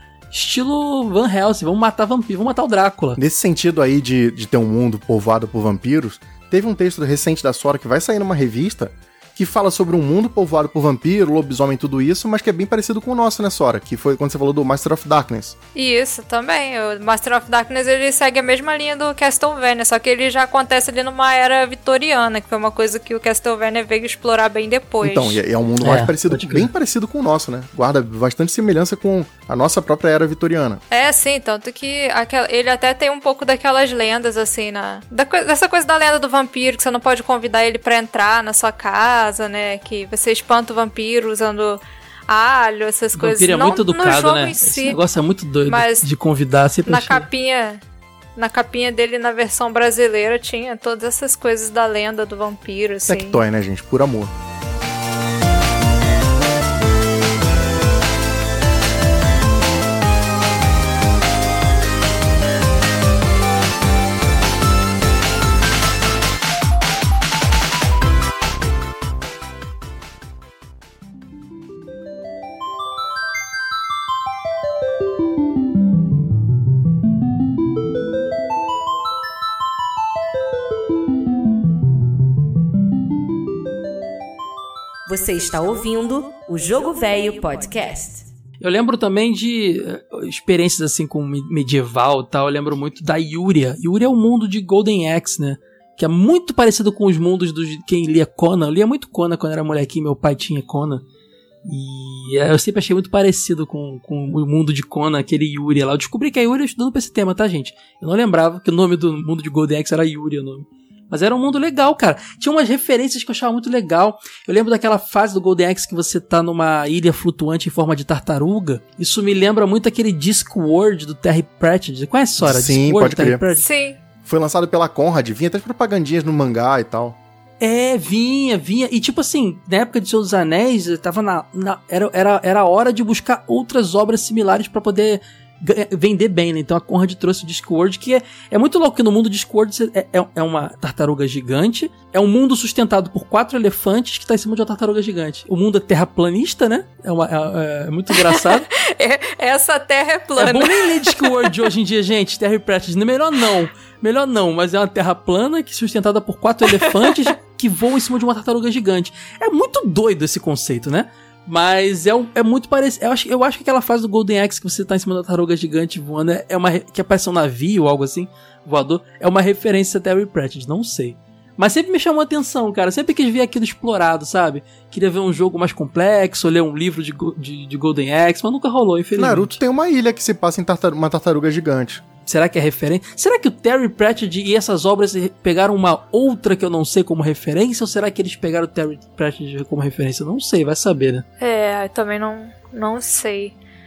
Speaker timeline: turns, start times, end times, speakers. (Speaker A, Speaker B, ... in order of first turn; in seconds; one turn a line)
Speaker A: 0.3-3.2
Speaker B: 3.2-15.5
Speaker C: 15.7-25.4
Speaker B: 25.0-30.8
Speaker A: 25.8-26.7
Speaker C: 30.9-45.0
Speaker A: 43.1-47.3
Speaker C: 45.7-46.0
Speaker C: 46.9-47.8
Speaker C: 48.4-53.4
Speaker B: 53.1-54.3
Speaker D: 85.1-88.2
Speaker A: 88.6-101.0
Speaker A: 101.7-123.6
Speaker B: 122.4-123.4
Speaker C: 123.5-124.0
Speaker B: 124.2-127.2
Speaker A: 127.6-148.7
Speaker C: 148.5-151.2
Speaker A: 150.4-179.6
Speaker B: 179.2-182.0
Speaker A: 182.2-191.2
Speaker C: 191.4-193.5